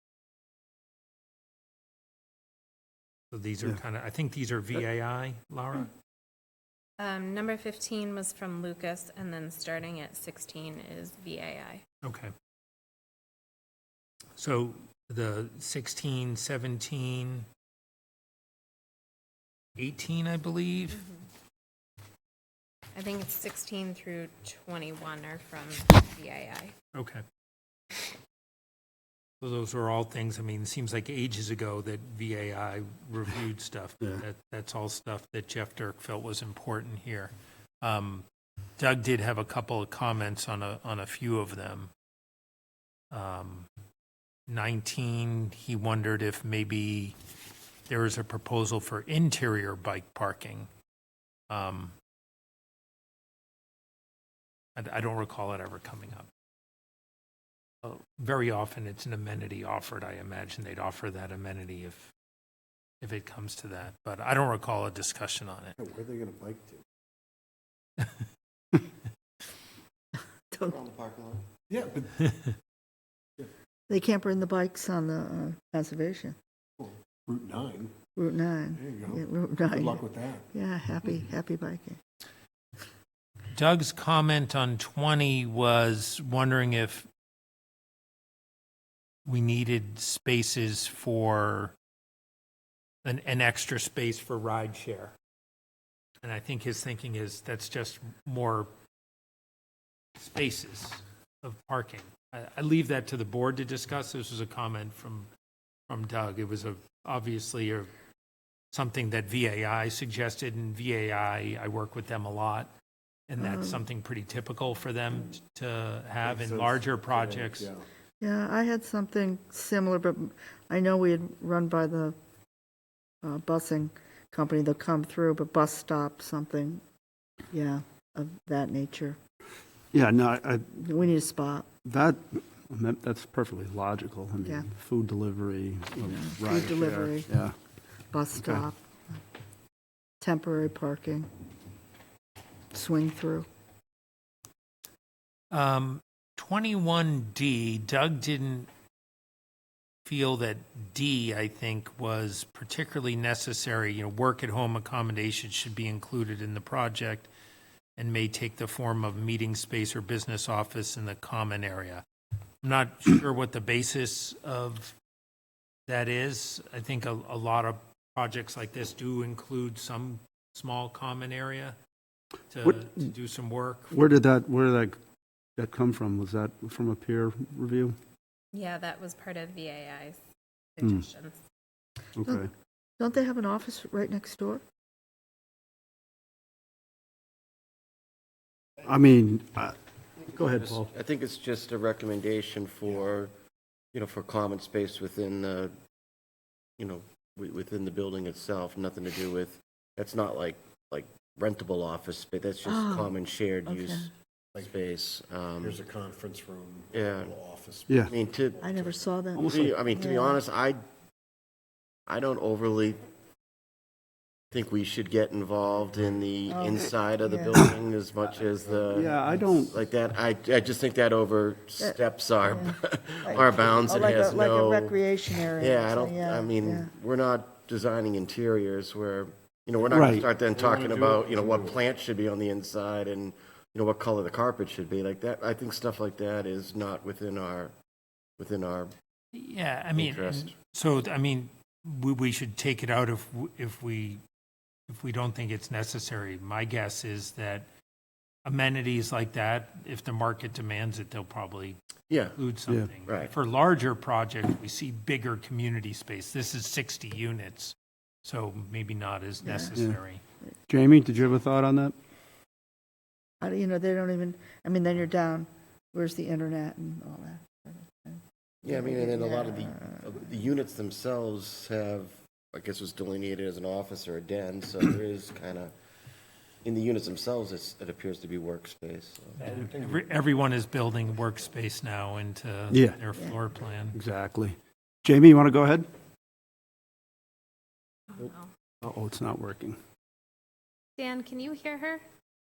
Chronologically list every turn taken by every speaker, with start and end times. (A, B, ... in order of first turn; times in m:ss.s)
0:03.3-0:05.9 A
0:07.0-0:11.8 B
0:12.0-0:12.3 A
0:14.4-0:17.5 A
0:19.8-0:21.0 A
0:22.9-0:26.7 B
0:26.9-0:27.2 A
0:29.4-0:38.2 A
0:38.8-0:41.9 A
0:43.1-0:43.7 A
0:44.5-0:47.1 A
0:47.9-0:50.7 A
0:51.5-0:51.9 A
0:54.8-0:56.3 A
0:57.8-1:02.1 A
1:03.0-1:05.8 A
1:05.8-1:06.8 C
1:10.6-1:11.5 D
1:11.7-1:12.3 C
1:13.9-1:16.4 E
1:16.8-1:17.9 C
1:18.2-1:20.0 E
1:18.8-1:20.5 C
1:20.5-1:22.0 E
1:23.5-1:27.1 A
1:29.2-1:31.7 A
1:33.0-1:35.1 A
1:36.2-1:38.7 A
1:40.2-1:45.3 A
1:45.9-1:47.9 A
1:48.7-1:52.7 A
1:53.3-1:57.7 A
1:53.4-1:53.8 E
1:56.2-1:57.8 C
1:58.2-2:02.1 E
2:03.2-2:06.8 E
2:07.5-2:09.2 E
2:09.9-2:10.7 F
2:10.7-2:11.7 E
2:11.8-2:17.5 F
2:14.4-2:14.7 E
2:16.0-2:17.4 E
2:18.1-2:19.2 E
2:20.2-2:21.3 E
2:22.7-2:23.5 E
2:25.5-2:28.7 A
2:30.0-2:37.3 A
2:38.0-2:42.0 A
2:42.6-2:44.9 A
2:45.9-2:51.8 A
2:52.5-2:54.0 A
2:53.9-2:55.0 F
2:55.6-2:58.0 F
2:58.5-3:00.2 B
3:00.8-3:01.4 B
3:02.2-3:02.5 F
3:03.0-3:04.6 E
3:08.8-3:10.9 F
3:10.5-3:13.3 D
3:13.9-3:15.7 D
3:16.8-3:25.8 D
3:22.7-3:23.1 E
3:23.7-3:24.1 E
3:25.6-3:28.0 C
3:26.9-3:27.4 D
3:27.9-3:28.1 F
3:28.1-3:28.8 D
3:28.5-3:29.0 C
3:28.6-3:30.4 E
3:29.3-3:29.8 F
3:29.4-3:30.8 D
3:32.1-3:33.0 D
3:34.5-3:57.7 D
3:36.5-3:37.6 E
3:38.8-3:39.7 F
3:41.8-3:46.9 E
3:43.3-3:43.9 C
3:49.9-3:51.8 C
3:49.9-3:50.3 F
3:58.4-3:58.9 D
3:59.3-4:04.2 A
4:00.0-4:00.5 D
4:04.9-4:07.7 A
4:08.4-4:11.8 A
4:12.1-4:12.4 D
4:12.3-4:20.2 A
4:13.0-4:13.3 D
4:19.4-4:19.7 E
4:19.7-4:20.0 F
4:20.7-4:21.9 F
4:23.4-4:30.0 E
4:28.6-4:35.7 D
4:36.6-4:39.6 D
4:39.4-4:44.0 A
4:39.5-4:40.0 C
4:42.7-4:43.0 F
4:43.9-4:45.9 F
4:48.1-4:48.5 B
4:48.8-4:49.8 F
4:51.0-4:52.0 B